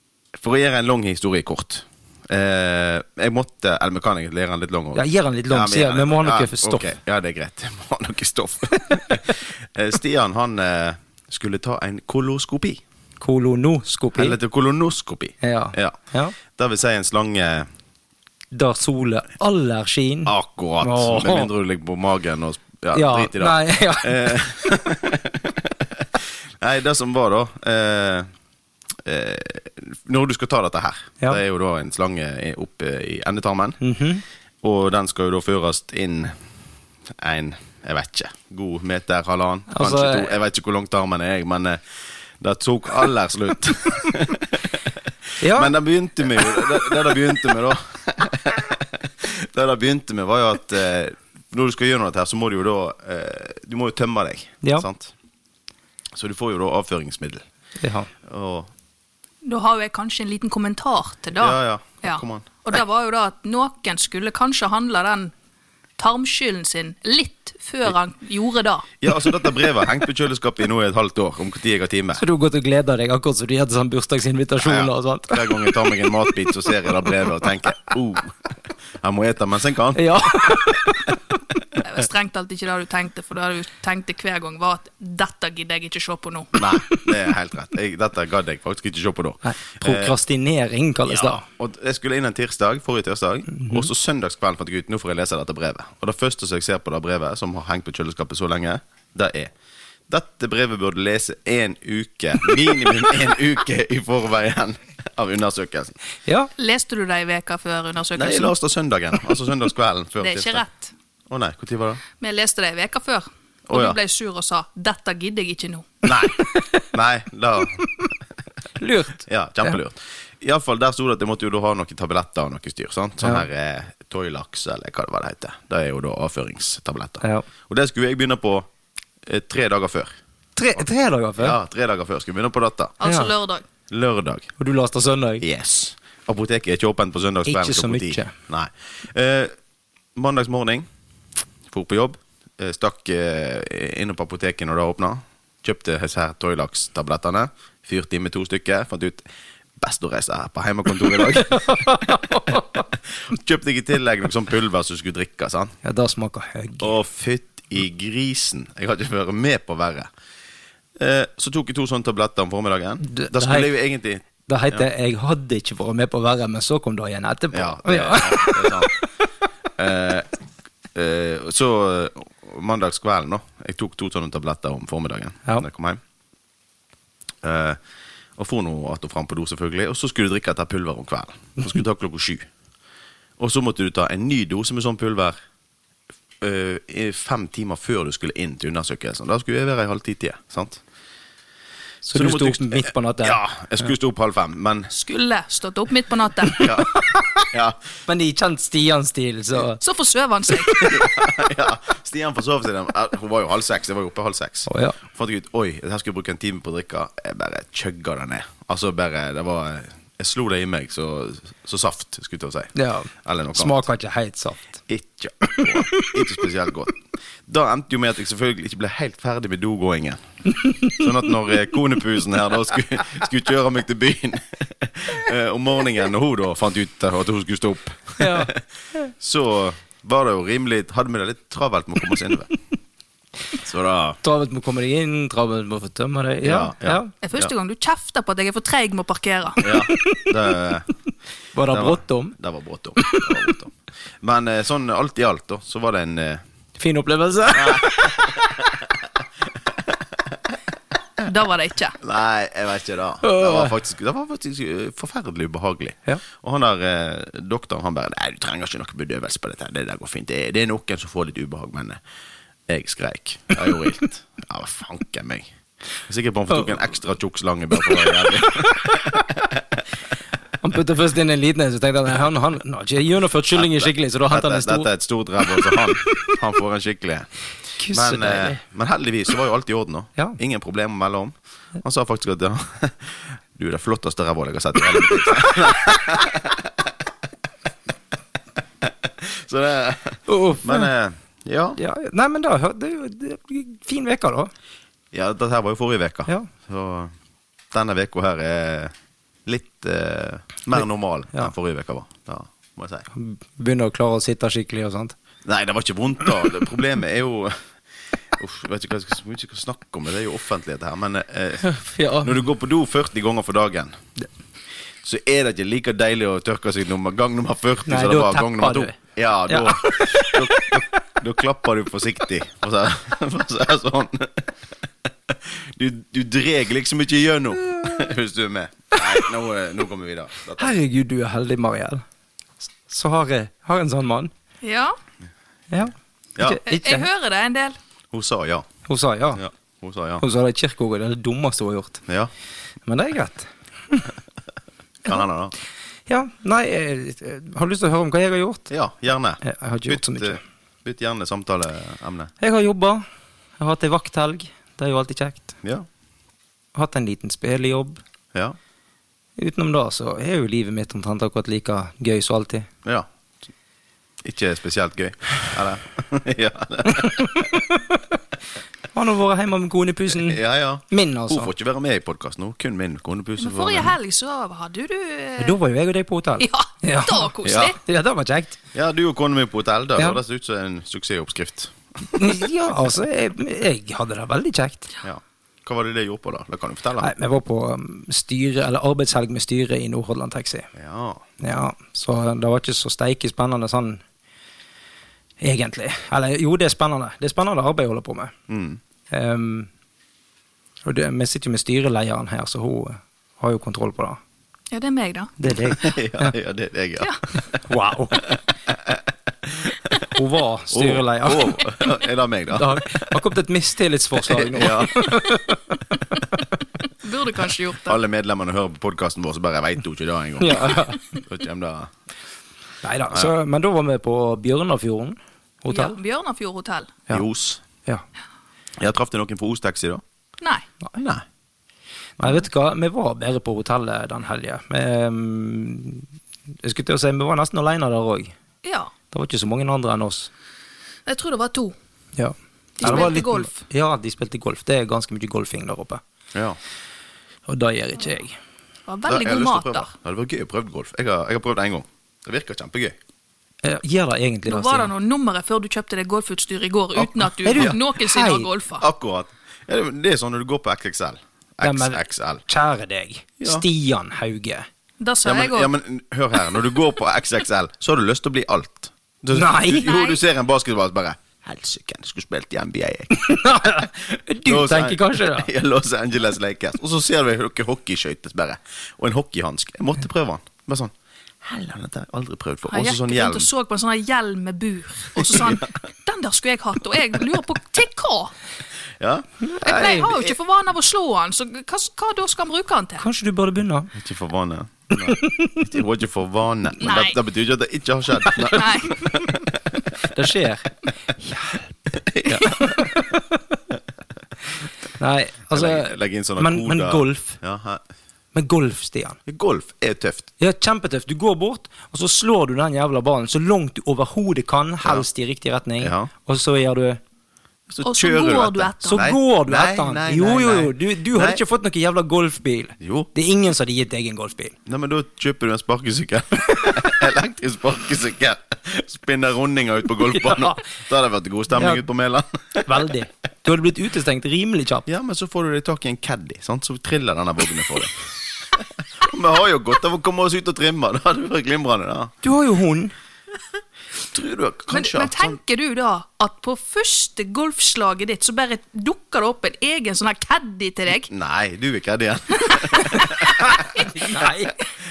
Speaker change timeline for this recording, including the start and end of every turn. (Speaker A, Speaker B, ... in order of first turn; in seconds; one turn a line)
Speaker A: 0.3-12.8
Speaker B: 4.9-6.9
Speaker B: 13.2-14.4
Speaker A: 14.1-16.0
Speaker B: 15.4-16.4
Speaker A: 16.5-17.7
Speaker B: 18.5-21.5
Speaker A: 20.2-28.3
Speaker B: 22.9-24.8
Speaker A: 29.0-33.8
Speaker B: 33.8-34.2
Speaker A: 34.6-36.3
Speaker A: 37.1-41.8
Speaker B: 39.7-40.3
Speaker A: 42.4-55.1
Speaker B: 45.4-45.7
Speaker A: 56.1-57.4
Speaker B: 57.8-58.1
Speaker A: 58.2-58.7
Speaker C: 59.4-65.3
Speaker A: 61.4-62.8
Speaker C: 66.0-68.9
Speaker A: 69.0-72.2
Speaker B: 72.2-77.1
Speaker A: 74.6-78.3
Speaker A: 79.0-80.8
Speaker B: 80.0-81.2
Speaker C: 81.8-86.6
Speaker A: 86.5-90.1
Speaker B: 89.4-91.4
Speaker A: 91.1-99.5
Speaker B: 93.5-93.9
Speaker A: 100.1-106.0
Speaker B: 106.2-106.5
Speaker C: 106.6-108.5
Speaker A: 108.1-110.6
Speaker C: 110.2-110.9
Speaker A: 111.3-112.0
Speaker C: 112.2-116.0
Speaker A: 113.7-114.0
Speaker A: 116.0-118.1
Speaker B: 118.8-119.7
Speaker A: 119.2-128.7
Speaker B: 127.2-127.5
Speaker A: 129.2-130.1
Speaker B: 130.6-131.6
Speaker A: 131.4-132.9
Speaker C: 133.0-133.6
Speaker B: 133.0-133.3
Speaker A: 133.9-134.5
Speaker B: 134.6-135.4
Speaker A: 135.4-139.5
Speaker B: 137.4-138.3
Speaker A: 140.2-140.8
Speaker A: 141.7-149.2
Speaker A: 149.8-155.8
Speaker B: 151.2-152.8
Speaker B: 155.8-156.9
Speaker A: 156.8-160.1
Speaker A: 161.0-164.8
Speaker B: 163.0-163.7
Speaker B: 164.4-169.0
Speaker A: 167.5-168.9
Speaker A: 169.8-170.3
Speaker A: 170.9-176.0
Speaker A: 177.4-177.8
Speaker A: 178.4-182.5
Speaker A: 183.4-185.3
Speaker A: 186.4-190.8
Speaker B: 192.0-193.4
Speaker A: 192.1-194.9
Speaker C: 194.9-196.7
Speaker A: 196.6-197.8
Speaker B: 196.6-197.4
Speaker B: 198.1-199.8
Speaker C: 199.8-200.9
Speaker A: 200.8-212.7
Speaker B: 204.7-205.0
Speaker B: 212.7-214.8
Speaker A: 213.2-213.8
Speaker A: 214.9-220.2
Speaker B: 215.5-216.1
Speaker A: 220.8-232.5
Speaker B: 228.2-228.5
Speaker A: 233.5-234.2
Speaker B: 234.2-237.1
Speaker A: 236.4-237.5
Speaker C: 237.2-239.6
Speaker A: 239.6-240.9
Speaker B: 239.9-240.3
Speaker B: 241.5-242.3
Speaker A: 241.7-246.4
Speaker B: 243.0-243.4
Speaker B: 246.8-248.7
Speaker A: 247.5-250.4
Speaker C: 251.2-252.0
Speaker A: 252.0-262.0
Speaker B: 253.2-253.7
Speaker A: 262.7-265.5
Speaker A: 266.1-269.8
Speaker B: 267.9-268.9
Speaker B: 270.6-274.9
Speaker A: 273.5-277.3
Speaker B: 275.5-276.3
Speaker B: 277.8-278.6
Speaker A: 277.9-286.9
Speaker A: 288.8-291.8
Speaker B: 290.2-290.9
Speaker B: 291.8-294.5
Speaker A: 295.1-297.1
Speaker A: 297.7-298.9
Speaker A: 299.4-303.1
Speaker B: 303.1-305.1
Speaker A: 305.4-307.6
Speaker A: 308.3-311.6
Speaker B: 311.6-312.4
Speaker A: 312.2-314.0
Speaker A: 315.0-324.5
Speaker B: 317.9-318.9
Speaker B: 319.5-320.8
Speaker A: 325.1-330.7
Speaker B: 330.6-332.0
Speaker B: 332.9-334.3
Speaker C: 334.6-334.9
Speaker B: 335.7-337.1
Speaker C: 336.6-337.8
Speaker A: 338.1-338.7
Speaker B: 338.9-339.4
Speaker A: 339.4-340.2
Speaker B: 340.2-342.0
Speaker A: 342.1-342.3
Speaker B: 342.9-344.1
Speaker A: 345.0-345.5
Speaker B: 346.1-348.7
Speaker A: 348.7-352.3
Speaker B: 349.4-350.4
Speaker B: 352.4-353.0
Speaker B: 353.6-355.6
Speaker B: 356.7-358.0
Speaker B: 359.4-362.7
Speaker A: 364.2-367.4
Speaker B: 366.8-368.0
Speaker B: 368.9-371.5
Speaker A: 370.1-373.9
Speaker C: 373.4-375.6
Speaker B: 375.4-377.3
Speaker C: 376.4-377.8
Speaker A: 377.4-377.7
Speaker B: 377.8-378.6
Speaker A: 378.7-382.4
Speaker B: 382.1-384.9
Speaker A: 385.0-387.1
Speaker B: 387.0-390.7
Speaker A: 390.7-391.2
Speaker B: 391.4-394.0
Speaker B: 395.4-398.3
Speaker A: 398.5-398.8
Speaker B: 399.1-399.7
Speaker B: 400.8-404.2
Speaker C: 404.7-405.3
Speaker B: 405.4-406.3
Speaker A: 405.5-407.6
Speaker B: 407.6-408.4
Speaker A: 408.1-410.1
Speaker B: 410.1-411.7
Speaker A: 410.7-413.2
Speaker B: 412.5-416.5
Speaker A: 414.2-415.2
Speaker C: 417.0-418.0
Speaker A: 417.8-421.9
Speaker B: 420.4-421.0
Speaker B: 422.8-425.9
Speaker C: 425.7-427.0
Speaker A: 427.1-427.6
Speaker A: 428.8-430.0
Speaker C: 430.4-430.6
Speaker A: 431.0-431.2
Speaker B: 432.2-436.1
Speaker B: 436.6-438.3
Speaker C: 438.6-438.9
Speaker B: 439.1-440.3
Speaker C: 441.1-441.7
Speaker B: 442.1-446.0
Speaker C: 442.8-443.6
Speaker A: 442.8-443.1
Speaker B: 447.5-448.4
Speaker C: 448.9-449.9
Speaker A: 449.1-453.0
Speaker B: 453.6-454.9
Speaker C: 454.5-458.8
Speaker A: 456.9-457.8
Speaker B: 457.4-458.5
Speaker A: 458.8-462.4
Speaker B: 461.6-464.7
Speaker A: 463.4-463.6
Speaker C: 465.0-465.7
Speaker A: 465.2-473.9
Speaker B: 469.3-469.9
Speaker C: 469.8-470.2
Speaker B: 473.1-475.5
Speaker A: 474.4-483.5
Speaker C: 482.7-488.3
Speaker A: 485.1-485.7
Speaker A: 489.0-490.4
Speaker B: 489.4-490.0
Speaker C: 489.6-493.0
Speaker B: 493.0-493.9
Speaker A: 493.9-499.9
Speaker B: 495.0-495.6
Speaker C: 496.8-497.1
Speaker C: 498.5-499.0
Speaker B: 500.0-501.8
Speaker A: 501.9-502.9
Speaker B: 502.3-503.6
Speaker B: 505.0-507.4
Speaker A: 505.5-507.8
Speaker B: 508.3-509.2
Speaker A: 509.3-510.3
Speaker B: 510.4-517.0
Speaker A: 515.8-516.1
Speaker A: 517.7-521.4
Speaker C: 517.8-519.1
Speaker B: 518.8-524.5
Speaker A: 522.8-523.1
Speaker A: 524.6-532.9
Speaker B: 530.1-530.6
Speaker B: 531.5-531.8
Speaker B: 532.6-534.9
Speaker A: 534.9-538.0
Speaker A: 538.5-542.1
Speaker B: 542.2-542.9
Speaker A: 544.1-545.4
Speaker C: 544.7-551.1
Speaker A: 551.0-554.3
Speaker C: 552.5-553.9
Speaker B: 553.1-554.5